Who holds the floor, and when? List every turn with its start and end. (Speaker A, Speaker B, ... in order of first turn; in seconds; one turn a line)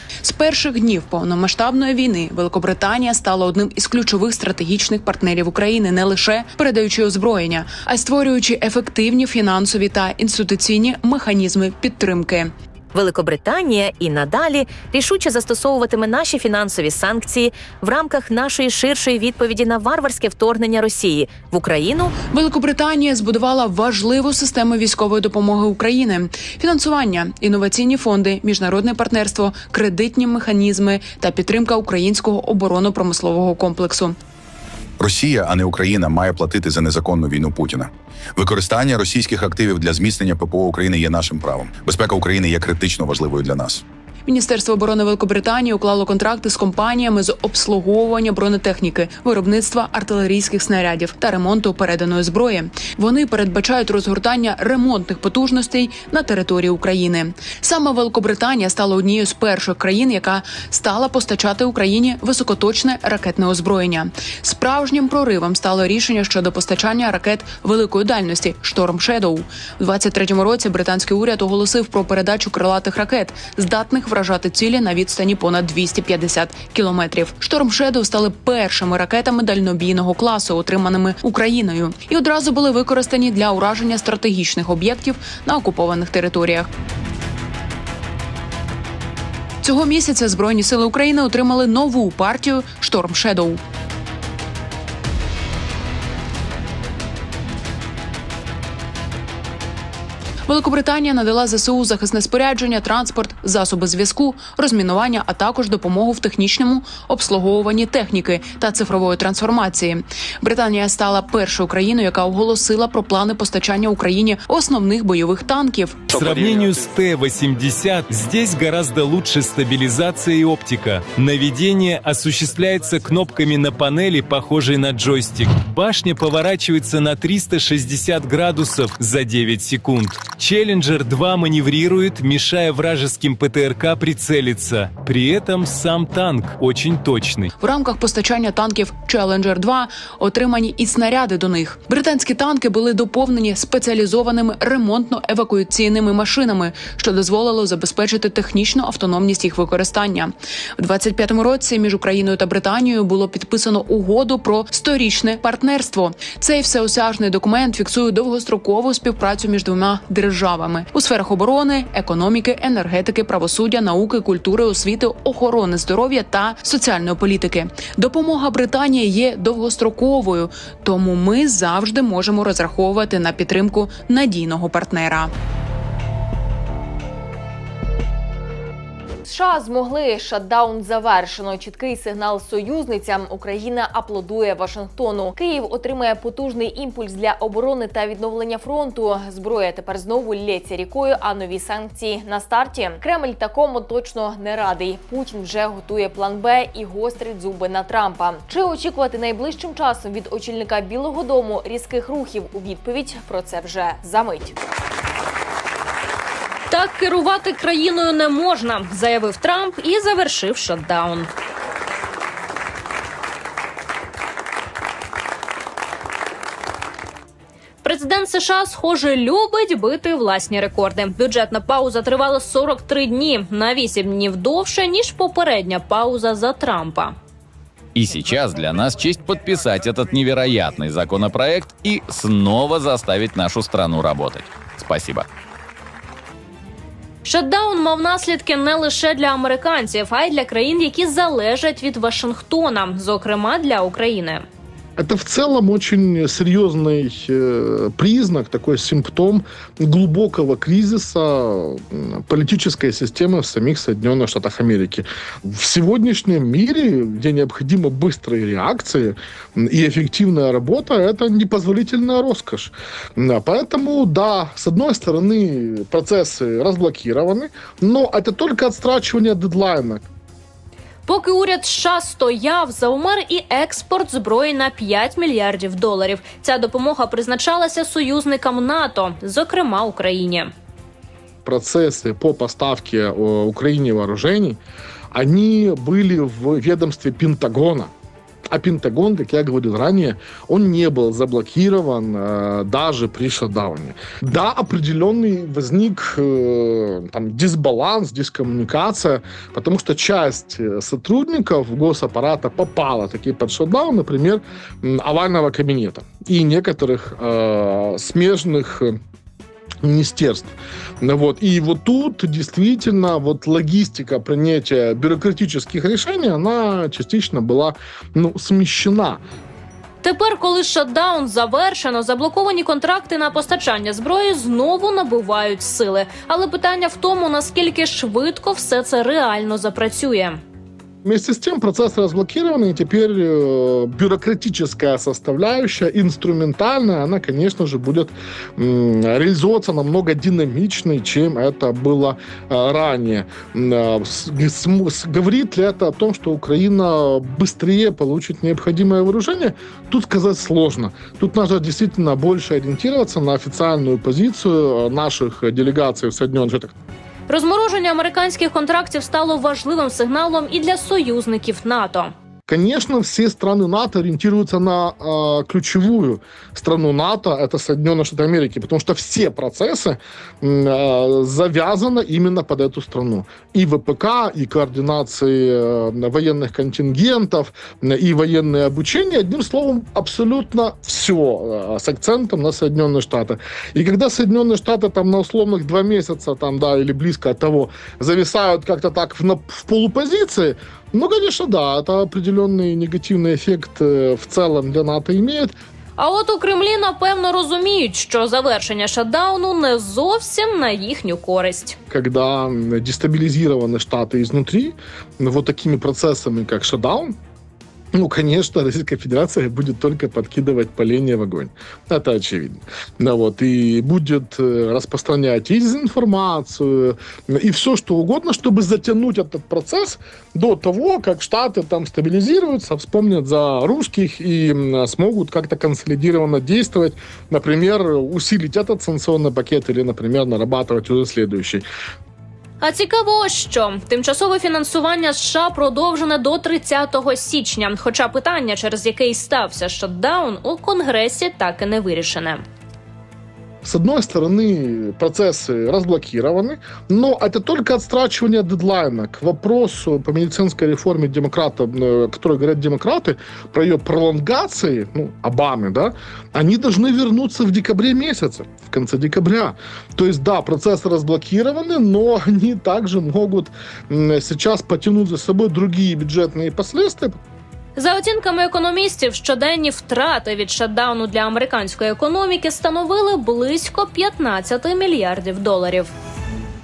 Speaker A: 0.2-12.5
Speaker B: 12.9-22.1
Speaker A: 22.3-34.2
Speaker C: 35.0-43.8
Speaker A: 44.2-86.7
Speaker A: 89.6-93.6
Speaker A: 100.5-116.1
Speaker D: 116.1-137.5
Speaker A: 137.6-175.3
Speaker E: 179.2-204.6
Speaker F: 206.7-211.3
Speaker F: 217.8-227.2
Speaker G: 227.9-235.2
Speaker F: 237.2-244.4
Speaker H: 245.0-270.1
Speaker F: 271.1-280.5
Speaker H: 281.4-284.6
Speaker H: 285.1-287.9
Speaker H: 288.5-309.0
Speaker H: 309.8-319.2
Speaker F: 320.0-330.4
Speaker H: 331.0-356.7
Speaker F: 357.3-362.1
Speaker H: 362.5-395.5
Speaker F: 396.0-401.8
Speaker H: 401.9-407.1
Speaker H: 407.9-431.6
Speaker F: 432.6-442.4
Speaker H: 443.6-467.2
Speaker F: 467.8-475.9